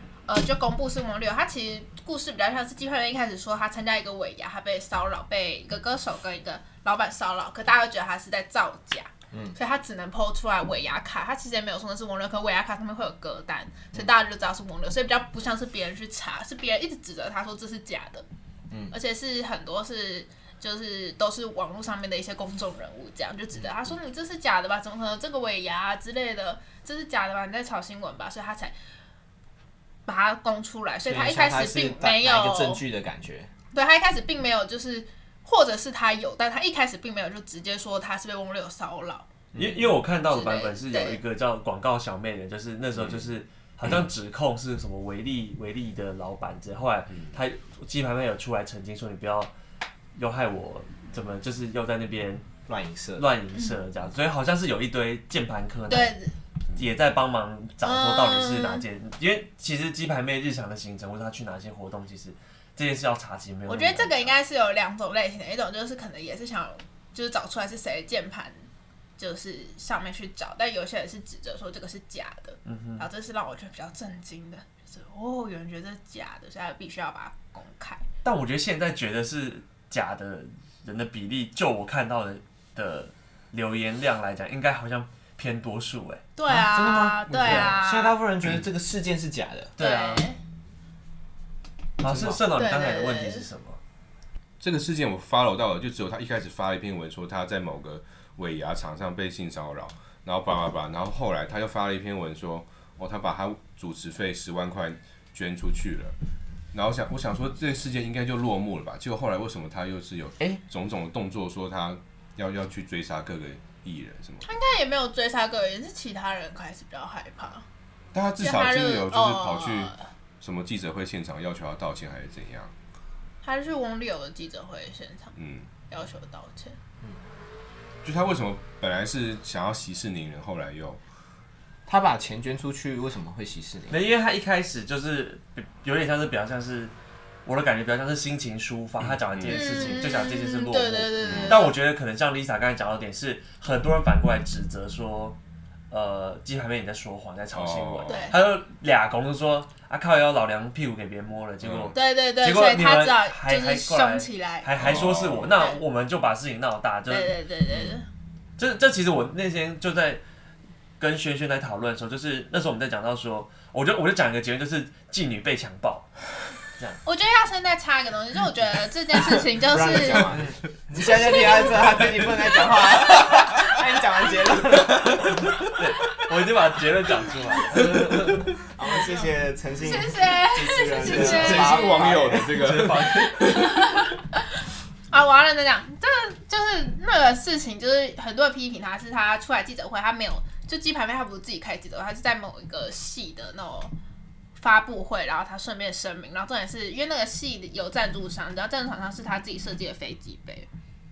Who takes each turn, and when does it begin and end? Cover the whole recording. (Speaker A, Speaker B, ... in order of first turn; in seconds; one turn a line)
Speaker A: 0.3-18.2
Speaker B: 9.3-9.6
Speaker A: 18.9-28.7
Speaker A: 30.1-32.8
Speaker B: 31.1-33.5
Speaker A: 33.7-39.2
Speaker C: 39.5-49.5
Speaker A: 40.3-41.2
Speaker C: 50.1-52.5
Speaker B: 52.7-53.2
Speaker C: 53.2-56.1
Speaker A: 55.9-56.3
Speaker C: 56.7-64.3
Speaker A: 57.8-58.8
Speaker A: 63.7-68.6
Speaker A: 69.2-78.0
Speaker C: 72.6-73.1
Speaker C: 78.2-86.2
Speaker A: 86.3-88.1
Speaker B: 86.5-89.7
Speaker D: 87.3-87.7
Speaker C: 89.8-90.3
Speaker A: 89.8-90.4
Speaker C: 92.0-93.8
Speaker B: 92.0-92.4
Speaker A: 92.5-93.5
Speaker D: 94.6-106.1
Speaker D: 106.7-114.5
Speaker A: 114.4-117.6
Speaker D: 118.1-122.7
Speaker A: 118.4-120.0
Speaker A: 123.4-125.3
Speaker D: 125.3-125.7
Speaker A: 125.9-126.8
Speaker D: 128.0-131.0
Speaker B: 131.9-134.0
Speaker C: 133.9-136.9
Speaker C: 137.4-145.4
Speaker D: 139.1-140.1
Speaker A: 139.5-141.7
Speaker D: 141.2-141.6
Speaker B: 141.2-141.5
Speaker C: 145.9-157.3
Speaker D: 147.5-148.3
Speaker A: 148.1-148.4
Speaker D: 151.6-151.9
Speaker A: 151.9-154.7
Speaker D: 154.8-155.6
Speaker A: 155.5-155.8
Speaker A: 157.1-158.1
Speaker C: 158.6-160.2
Speaker C: 161.0-166.1
Speaker C: 166.7-167.0
Speaker A: 167.0-170.4
Speaker B: 169.3-175.5
Speaker A: 170.9-172.1
Speaker A: 172.6-172.9
Speaker C: 175.8-178.6
Speaker B: 177.8-182.6
Speaker A: 179.8-182.4
Speaker D: 181.0-183.7
Speaker C: 182.5-183.8
Speaker A: 183.0-184.4
Speaker A: 185.1-193.9
Speaker A: 194.6-200.7